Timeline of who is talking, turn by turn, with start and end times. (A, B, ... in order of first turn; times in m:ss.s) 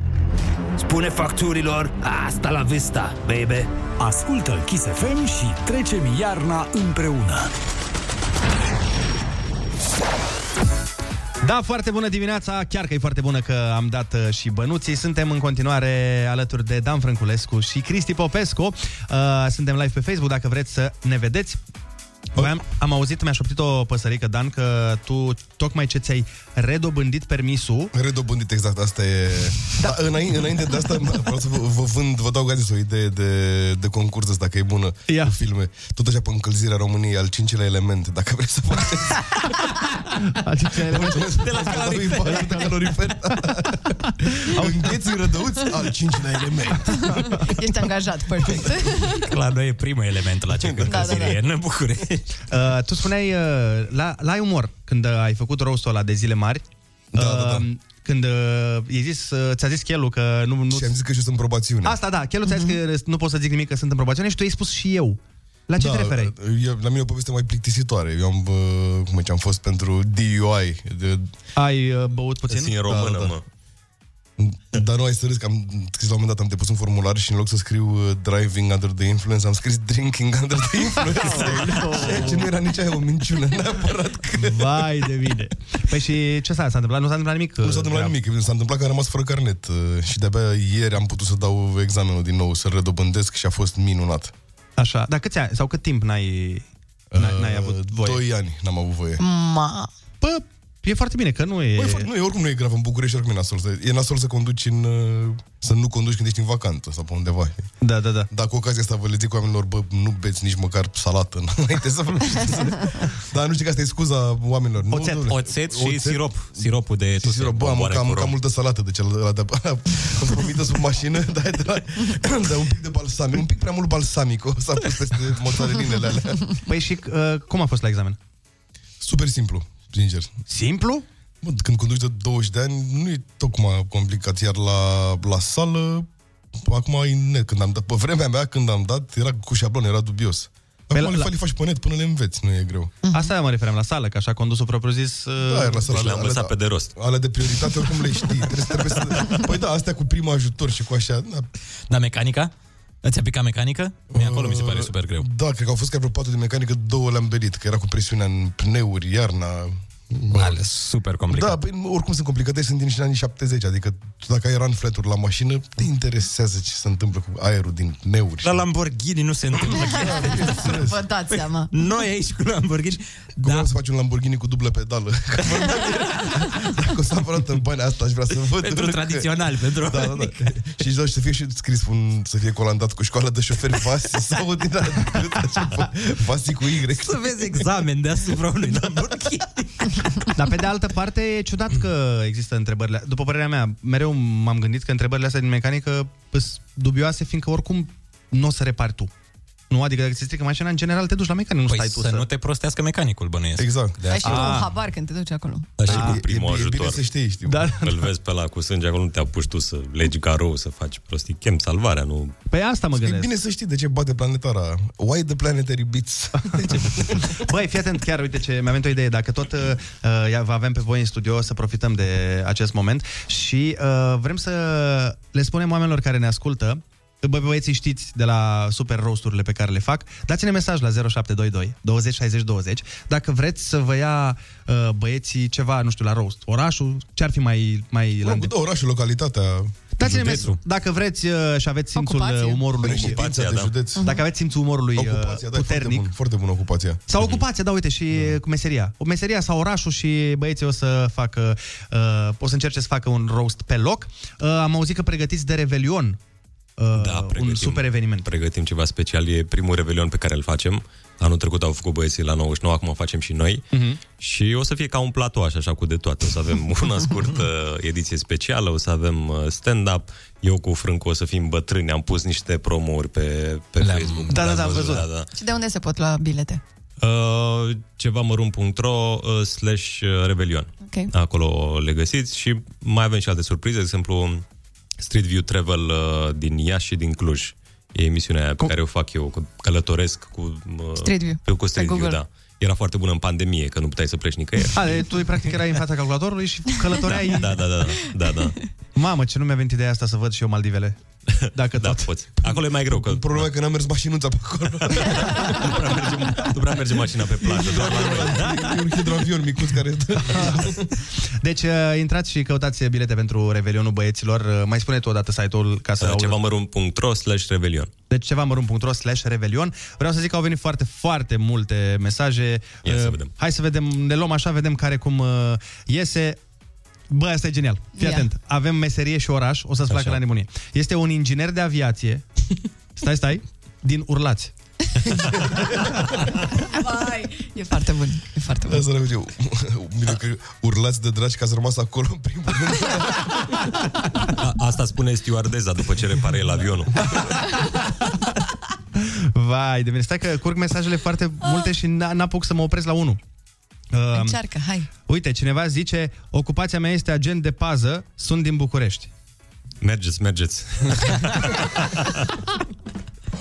0:00.8-0:07.5 A
0:11.4-0:21.6 B
0:22.4-0:27.9 B
0:27.9-0:39.4 C
0:29.8-0:30.4 B
0:35.1-0:35.4 B
0:40.2-0:42.8 B
0:40.8-0:47.5 C
0:41.4-0:42.4 D
0:44.3-0:44.9 B
0:47.0-0:49.3 E
0:49.1-0:52.3 D
0:50.6-0:51.3 C
0:50.9-0:51.4 E
0:52.5-1:01.0 B
0:57.1-0:57.7 C
1:00.7-1:02.0 C
1:01.8-1:06.3 B
1:02.5-1:02.7 E
1:05.8-1:11.3 C
1:11.6-1:13.3 B
1:12.5-1:13.4 F
1:14.4-1:24.8 C
1:21.0-1:22.5 B
1:24.4-1:28.2 B
1:27.6-1:34.3 C
1:34.8-1:38.2 B
1:37.1-1:39.2 C
1:39.2-1:39.9 E
1:40.2-1:42.1 B
1:41.8-1:47.7 C
1:47.8-1:48.3 B
1:48.3-1:56.7 C
1:54.9-1:55.2 B
1:55.3-1:57.5 D
1:57.2-2:06.6 C
1:57.4-1:58.4 F
2:06.6-2:08.2 B
2:09.0-2:10.3 C
2:10.5-2:11.0 B
2:11.4-2:16.1 C
2:16.6-2:22.9 C
2:20.9-2:21.3 B
2:23.0-2:23.3 E
2:23.1-2:25.9 B
2:25.4-2:31.5 C
2:25.9-2:26.9 F
2:31.9-2:32.5 D
2:33.0-2:35.3 D
2:34.1-2:40.6 C
2:40.3-2:41.6 D
2:41.3-2:48.6 C
2:48.4-2:50.7 D
2:49.7-2:51.0 C
2:49.8-2:51.7 E
2:51.7-2:53.7 D
2:53.4-3:07.6 C
2:58.6-3:00.5 D
3:07.0-3:10.2 D
3:10.3-3:19.1 B
3:19.7-3:22.3 B
3:21.7-3:24.6 D
3:23.6-3:24.0 C
3:24.1-3:25.7 E
3:24.2-3:24.7 B
3:25.8-3:27.0 F
3:25.8-3:27.7 C
3:25.9-3:26.2 B
3:27.4-3:28.1 B
3:27.8-3:32.4 F
3:32.5-3:33.3 B
3:32.9-3:37.4 C
3:36.5-3:58.5 B
3:58.2-3:59.8 C
4:00.0-4:03.3 B
4:00.0-4:00.6 D
4:02.0-4:02.6 E
4:02.8-4:04.1 C
4:02.9-4:03.8 F
4:04.0-4:06.1 B
4:04.9-4:07.0 C
4:07.1-4:16.2 B
4:16.8-4:18.3 B
4:16.9-4:35.3 F
4:23.7-4:24.0 B
4:33.8-4:35.0 D
4:34.3-4:35.0 B
4:35.3-4:36.6 E
4:37.0-4:44.4 F
4:40.8-4:41.1 E
4:45.0-4:55.0 F
4:51.0-4:52.2 E
4:54.7-4:57.7 B
4:57.0-4:58.6 F
4:58.9-5:02.1 B
5:01.4-5:03.5 F
5:02.4-5:06.1 C
5:05.4-5:08.5 F
5:07.4-5:10.8 C
5:10.2-5:16.4 B
5:16.0-5:17.9 F
5:18.1-5:26.4 B
5:22.8-5:23.3 F
5:27.1-5:32.2 B
5:28.0-5:28.3 E
5:29.9-5:30.2 F
5:33.0-5:34.5 B
5:35.1-5:35.7 C
5:36.6-5:38.8 E
5:38.6-5:43.7 C
5:44.4-5:47.2 F
5:49.0-5:53.2 B
5:53.9-5:54.4 B
5:54.1-5:54.9 E
5:55.1-5:59.1 B
5:59.8-6:02.2 F